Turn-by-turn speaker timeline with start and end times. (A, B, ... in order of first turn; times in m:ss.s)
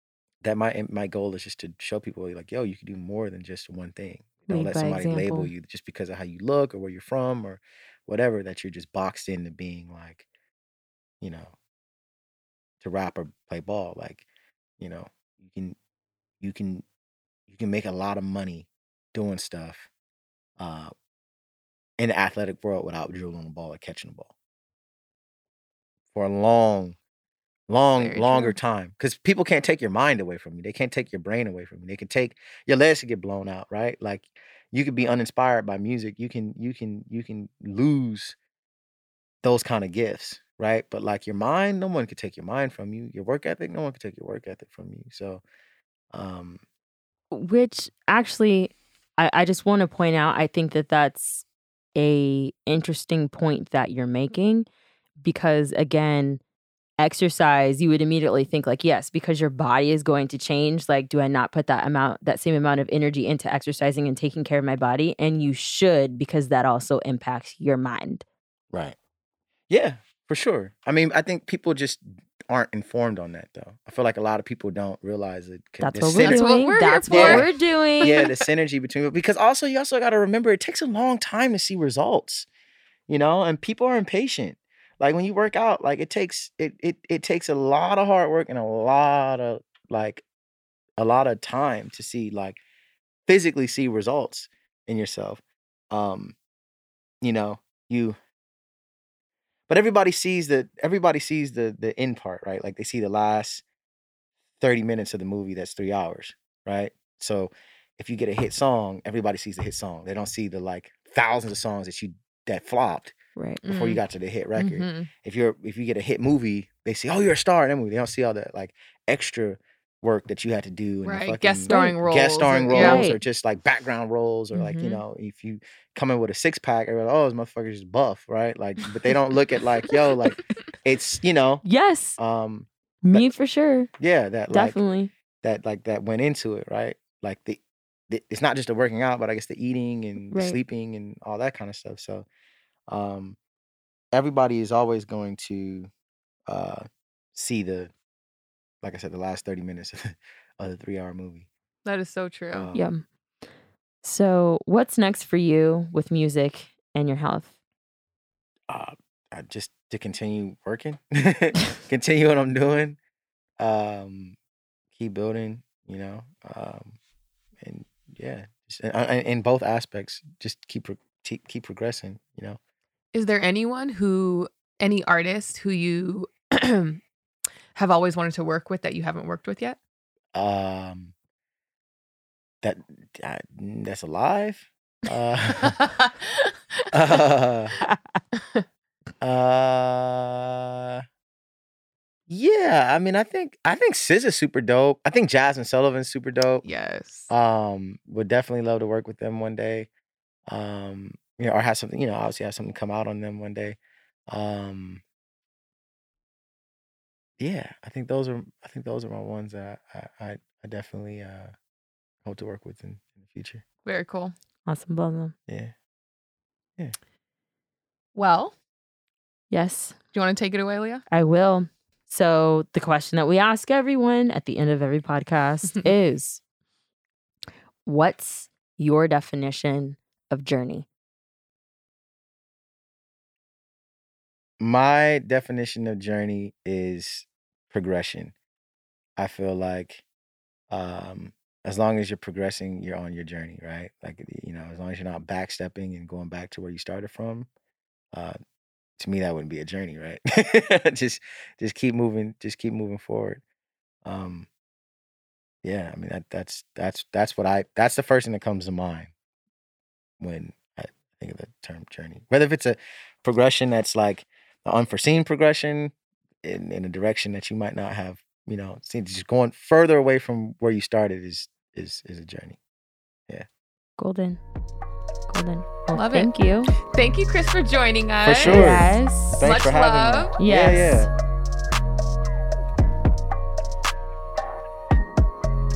0:00.4-0:10.3 A
0:04.5-0:05.5 B
0:11.2-0:11.5 A
0:12.8-0:14.3 A
0:14.8-0:15.8 A
0:16.4-0:16.8 A
0:17.5-0:19.9 A
0:20.6-0:20.9 A
0:22.0-0:24.3 A
0:26.1-0:27.0 A
0:27.7-0:38.4 A
0:28.0-0:28.6 C
0:39.4-0:45.4 A
0:46.1-0:46.6 A
0:47.3-0:54.7 B
0:55.2-0:56.4 B
0:57.0-1:08.2 B
1:08.7-1:09.0 A
1:09.7-1:16.5 A
1:15.8-1:18.2 B
1:16.2-1:18.4 C
1:17.1-1:22.5 A
1:23.1-1:30.2 A
1:31.0-1:32.6 A
1:33.3-1:36.4 A
1:37.2-1:38.2 A
1:39.7-1:43.6 A
1:44.6-2:11.6 A
1:53.4-1:53.6 B
1:53.6-1:54.0 C
1:54.6-1:55.1 C
2:01.0-2:03.1 C
2:01.7-2:02.0 B
2:02.7-2:03.2 B
2:04.5-2:05.0 C
2:11.6-2:12.2 B
2:12.2-2:13.3 A
2:13.0-2:13.9 B
2:14.0-2:14.8 A
2:14.5-2:15.1 B
2:15.4-2:22.3 A
2:20.3-2:20.6 B
2:22.9-2:23.4 A
2:24.1-2:25.9 A
2:26.5-2:27.9 A
2:28.8-2:31.5 A
2:31.8-2:32.7 C
2:32.5-2:32.9 A
2:32.7-2:33.0 B
2:34.0-2:37.5 B
2:38.7-2:43.0 A
2:43.6-2:44.4 A
2:45.0-2:47.0 A
2:47.6-2:52.6 A
2:53.1-2:57.0 C
2:57.8-2:59.8 C
3:00.4-3:01.1 A
3:02.6-3:05.8 A
3:05.6-3:06.9 C
3:06.9-3:07.7 A
3:08.4-3:08.6 C
3:09.2-3:11.0 A
3:12.3-3:16.6 A
3:16.6-3:17.3 C
3:17.3-3:19.9 A
3:20.5-3:23.8 A
3:24.3-3:25.0 A
3:27.4-3:31.5 A
3:32.2-3:33.6 A
3:33.8-3:34.3 C
3:34.7-3:35.3 B
3:35.5-3:35.7 A
3:38.2-3:38.6 C
3:39.5-3:40.0 B
3:40.1-3:41.0 C
3:41.1-3:46.4 B
3:47.8-3:50.9 B
3:54.6-3:58.3 A
3:59.2-4:00.0 A
4:00.7-4:07.5 A
4:09.0-4:13.4 A
4:14.0-4:14.5 A
4:15.6-4:19.1 A
4:20.2-4:32.6 A
4:34.0-4:34.4 B
4:35.3-4:36.7 B
4:36.0-4:38.8 C
4:38.2-4:41.1 A
4:38.4-4:39.4 B
4:39.4-4:40.4 C
4:40.4-4:41.1 B